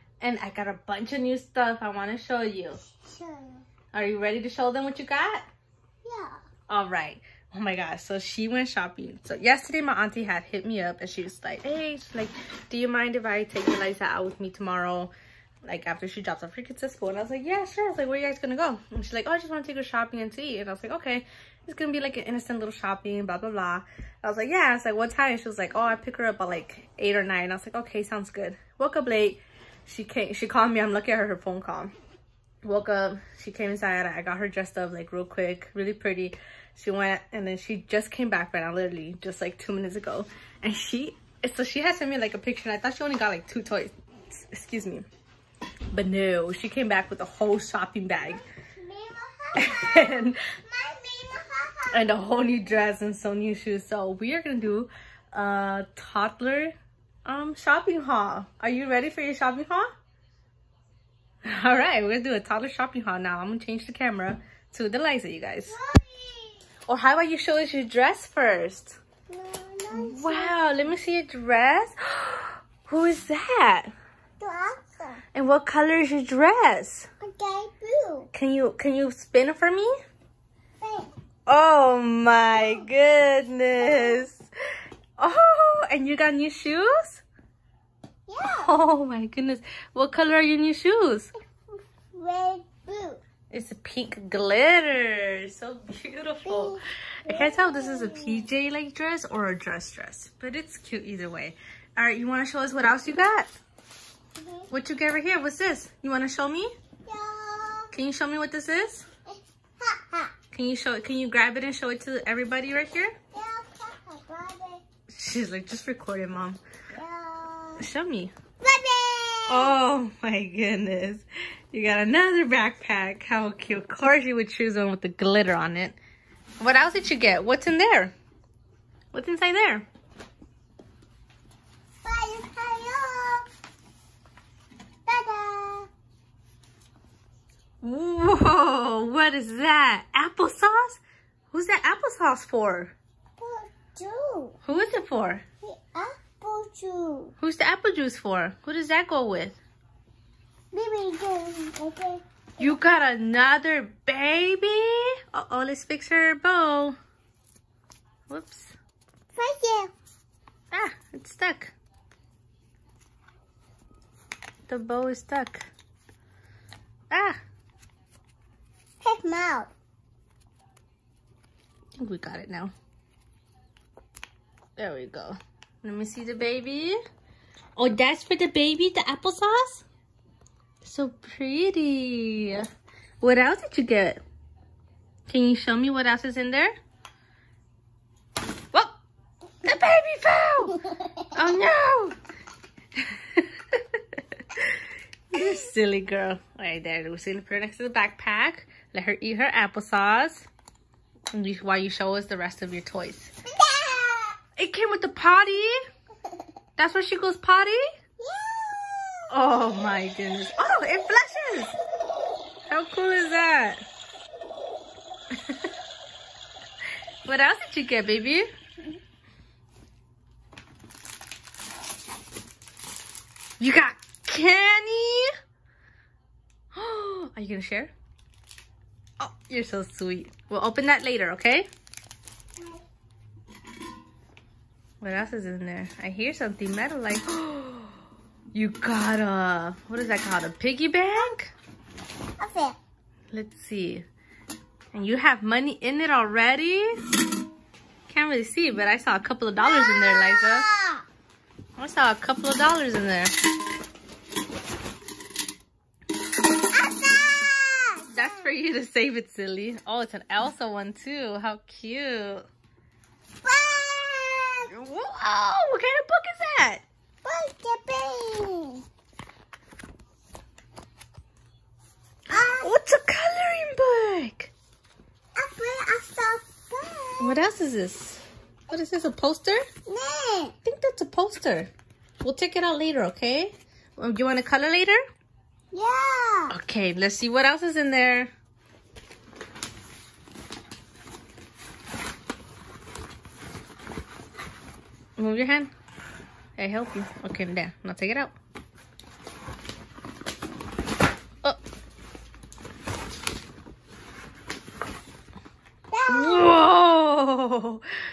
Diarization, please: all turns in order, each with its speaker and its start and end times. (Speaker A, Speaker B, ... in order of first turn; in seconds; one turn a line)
Speaker A: 0.2-2.8
Speaker B: 2.8-3.6
Speaker A: 3.9-5.5
Speaker B: 6.0-6.4
Speaker A: 6.7-31.9
Speaker A: 32.6-45.0
Speaker A: 45.9-48.4
Speaker B: 48.2-52.1
Speaker A: 49.6-50.4
Speaker A: 51.9-59.9
Speaker A: 61.4-65.7
Speaker B: 65.7-66.7
Speaker A: 66.9-69.0
Speaker B: 69.3-70.6
Speaker A: 69.9-73.9
Speaker B: 74.4-75.2
Speaker A: 75.3-77.1
Speaker B: 77.2-78.3
Speaker A: 78.3-79.9
Speaker B: 80.8-81.1
Speaker A: 81.5-84.5
Speaker B: 82.5-82.9
Speaker B: 83.8-84.2
Speaker A: 85.2-87.2
Speaker B: 88.3-88.7
Speaker A: 88.5-91.3
Speaker B: 92.1-93.2
Speaker A: 93.5-103.5
Speaker B: 96.5-98.5
Speaker B: 104.3-104.7
Speaker A: 104.7-106.7
Speaker B: 107.0-107.9
Speaker A: 107.9-109.0
Speaker B: 109.8-110.3
Speaker A: 110.5-113.1
Speaker B: 113.3-114.8
Speaker A: 115.1-116.6
Speaker B: 116.9-117.8
Speaker A: 117.8-118.3
Speaker B: 118.6-119.7
Speaker A: 119.5-126.0
Speaker A: 126.6-128.1
Speaker A: 129.1-129.8
Speaker B: 132.0-133.5
Speaker B: 135.1-135.9
Speaker A: 137.8-141.0
Speaker A: 141.5-142.9
Speaker B: 143.4-144.6
Speaker A: 144.6-145.4
Speaker B: 145.6-147.3
Speaker A: 147.4-149.6
Speaker B: 150.7-152.7
Speaker A: 152.6-156.9
Speaker A: 158.3-158.8
Speaker B: 159.3-159.9
Speaker A: 160.7-161.7
Speaker A: 164.7-165.7
Speaker A: 167.1-167.4
Speaker B: 169.0-169.7
Speaker A: 172.0-172.7
Speaker A: 174.8-177.0
Speaker A: 177.8-179.8
Speaker A: 180.8-182.7
Speaker A: 183.2-184.2
Speaker A: 185.3-186.7
Speaker A: 189.6-190.8
Speaker A: 191.3-192.2
Speaker A: 193.0-194.8
Speaker A: 195.3-200.5
Speaker A: 201.3-203.3
Speaker B: 203.5-204.4
Speaker A: 204.6-205.8
Speaker A: 206.8-207.9
Speaker B: 208.2-209.2
Speaker A: 209.3-211.8
Speaker A: 212.7-213.8
Speaker A: 217.2-218.5
Speaker A: 223.6-225.3
Speaker A: 226.7-227.9
Speaker A: 229.2-231.7
Speaker A: 235.0-237.8
Speaker A: 238.5-241.5
Speaker B: 242.4-242.8
Speaker A: 243.3-244.1
Speaker A: 244.9-247.0
Speaker A: 248.1-250.7
Speaker B: 249.6-251.1
Speaker A: 251.8-253.3
Speaker B: 256.7-258.4
Speaker A: 258.1-262.4
Speaker B: 263.4-264.7
Speaker A: 264.7-266.8
Speaker B: 267.2-268.8
Speaker A: 272.3-274.5
Speaker B: 272.3-272.7
Speaker B: 275.4-277.4
Speaker A: 277.2-279.6
Speaker B: 279.9-280.6
Speaker A: 280.6-281.7
Speaker A: 282.2-285.0
Speaker B: 285.7-286.5
Speaker A: 286.5-288.3
Speaker A: 295.2-295.7
Speaker A: 296.6-298.3
Speaker B: 305.9-306.5
Speaker A: 306.1-307.9